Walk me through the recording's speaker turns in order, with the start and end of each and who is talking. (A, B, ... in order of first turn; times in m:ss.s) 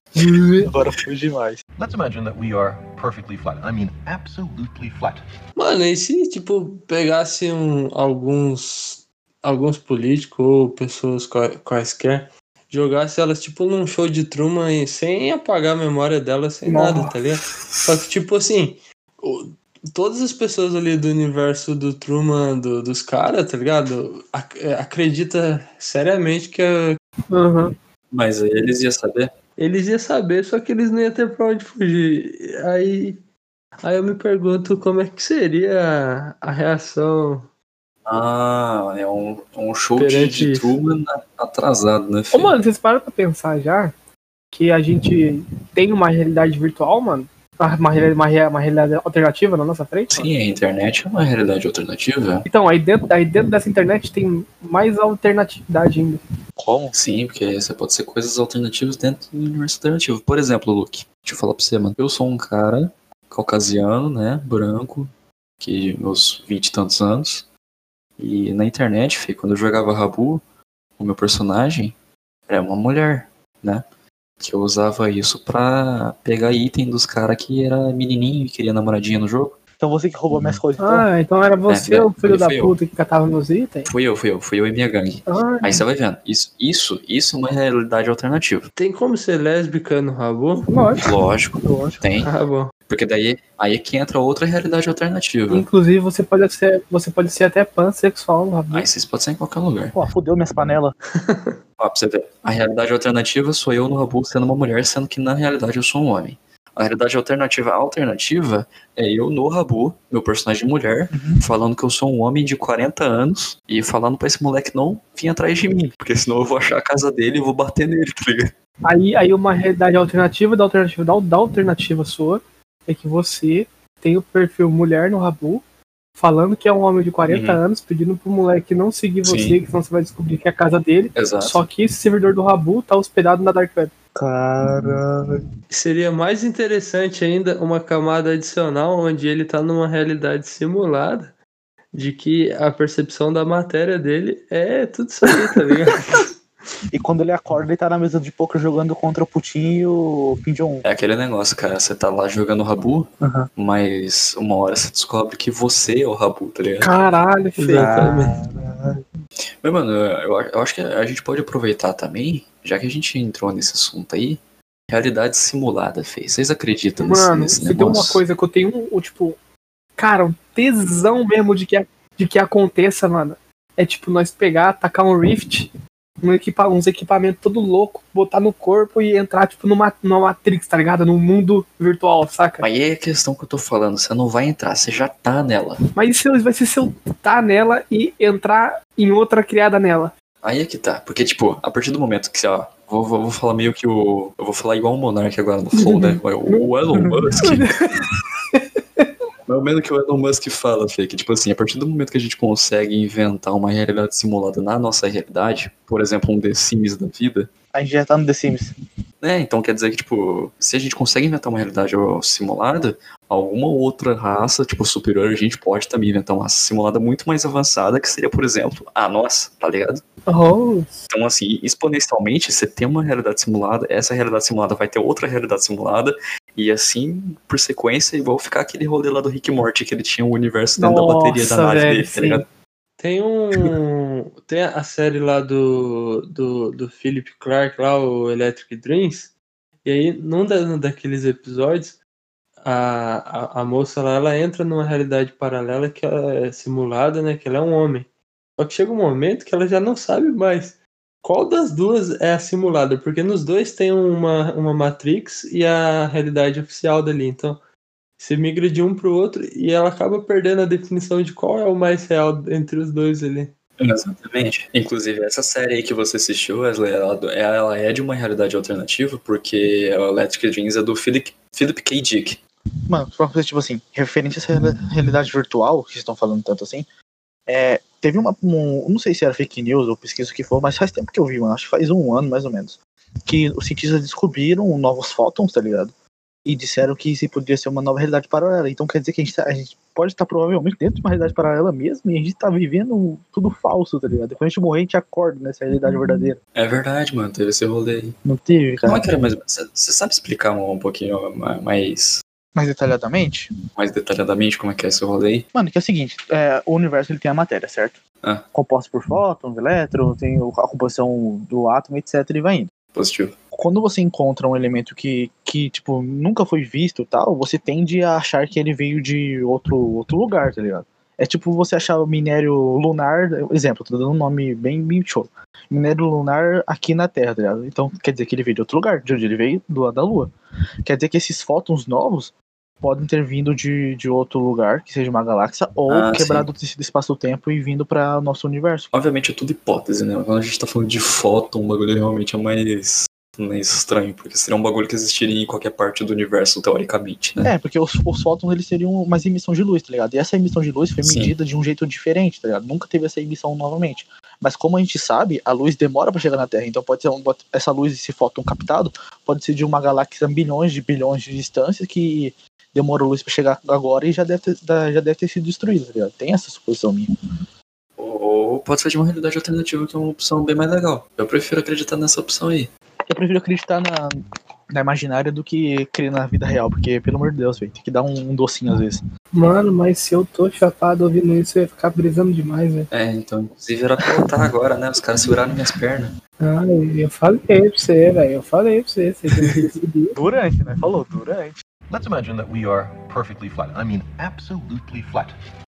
0:00.2-0:00.6 A
0:00.6-0:01.6 B
0:01.8-0:05.2 C
0:05.6-0:27.0 D
0:16.6-0:17.1 A
0:27.3-0:27.7 A
0:28.1-0:29.3 E
0:29.6-0:33.2 D
0:33.8-0:37.5 D
0:38.0-0:42.5 E
0:40.0-0:40.8 D
0:42.3-0:43.9 A
0:44.5-0:50.3 A
0:50.1-0:52.4 E
0:52.4-0:56.2 A
0:56.6-0:56.9 B
0:56.9-1:07.5 E
1:08.2-1:10.4 E
1:11.0-1:12.0 E
1:12.5-1:13.8 E
1:14.4-1:19.6 E
1:19.8-1:21.1 B
1:20.8-1:23.9 A
1:21.7-1:22.8 E
1:23.8-1:28.7 E
1:25.3-1:25.8 A
1:28.7-1:30.7 D
1:30.7-1:31.0 A
1:31.0-1:32.3 E
1:31.6-1:32.0 A
1:32.2-1:32.7 D
1:32.9-1:35.7 E
1:35.5-1:38.9 A
1:38.7-1:40.0 E
1:39.9-1:41.0 B
1:41.8-1:58.5 E
1:51.1-1:51.4 B
1:58.8-2:05.6 A
2:06.2-2:13.9 A
2:07.3-2:07.6 E
2:09.2-2:09.6 E
2:11.1-2:11.6 E
2:14.1-2:15.4 B
2:15.7-2:21.3 D
2:21.9-2:26.3 D
2:26.9-2:30.8 B
2:30.8-2:37.0 E
2:36.8-2:38.1 A
2:37.6-2:38.4 D
2:37.7-2:39.0 B
2:39.6-2:48.2 E
2:47.0-2:49.4 A
2:50.0-2:55.7 A
2:56.2-3:02.6 A
3:02.6-3:05.8 E
3:06.0-3:10.1 A
3:10.4-3:17.8 E
3:15.8-3:16.7 A
3:17.4-3:17.8 A
3:19.5-3:27.5 E
3:27.7-3:28.7 B
3:29.2-3:40.0 E
3:40.3-3:40.9 A
3:41.1-3:52.4 E
3:50.8-3:52.4 A
3:53.0-4:02.0 D
4:02.6-4:17.6 D
4:18.2-4:23.5 D
4:23.8-4:32.4 E
4:32.9-4:36.9 B
4:37.5-4:45.9 B
4:46.4-4:56.4 B
4:56.5-4:58.2 E
4:58.2-4:59.0 B
4:58.8-5:02.2 E
5:02.5-5:03.5 B
5:03.8-5:05.5 E
5:05.5-5:08.0 B
5:08.5-5:12.7 B
5:12.9-5:13.4 E
5:13.5-5:30.3 B
5:30.8-5:38.9 B
5:35.9-5:36.5 E
5:38.9-5:47.5 E
5:47.4-6:07.1 B
5:51.0-5:51.3 E
6:08.0-6:12.7 E
6:13.1-6:19.0 B
6:19.3-6:22.9 A
6:22.9-6:26.1 E
6:26.4-6:30.1 A
6:30.2-6:31.6 B
6:31.9-6:35.4 C